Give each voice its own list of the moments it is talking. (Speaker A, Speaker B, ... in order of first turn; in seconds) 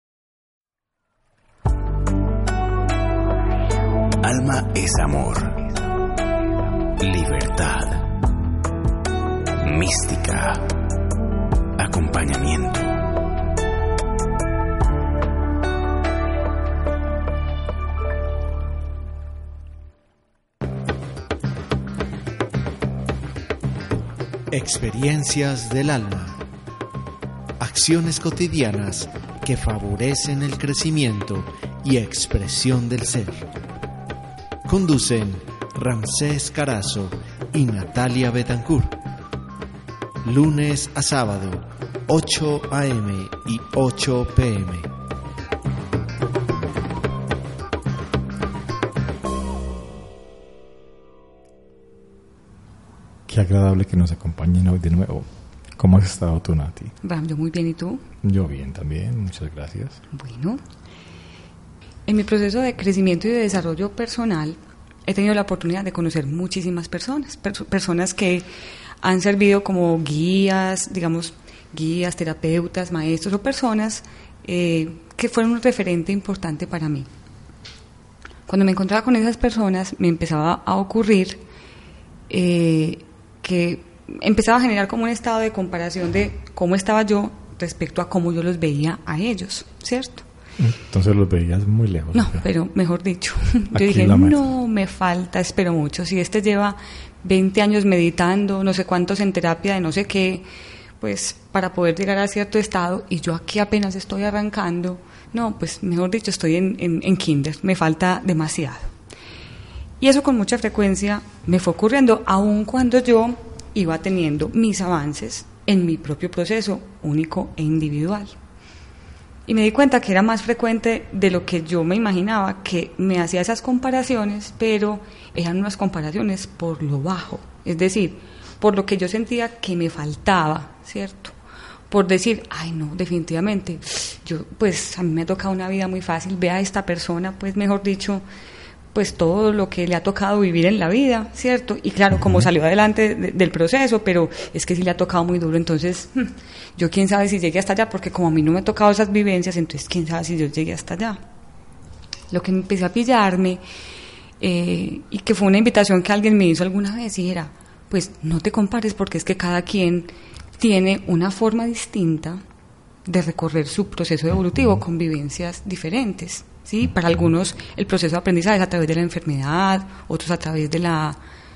Speaker A: 4.2-5.6, 7.0-8.1, 9.6-10.7, 11.8-13.0
Speaker B: 24.5-26.4, 27.6-33.5, 34.7-39.0, 40.2-44.9
Speaker C: 53.3-56.9, 58.2-60.0, 90.6-92.4, 93.7-94.4, 142.1-142.5
Speaker D: 57.0-58.0, 60.1-60.6, 62.0-68.5, 69.0-77.1, 78.5-81.4, 82.3-90.2, 92.1-100.5, 101.0-108.9, 110.0-118.3, 119.5-131.3, 131.9-138.2, 138.9-151.2, 152.3-153.6, 154.4-162.4, 163.1-171.2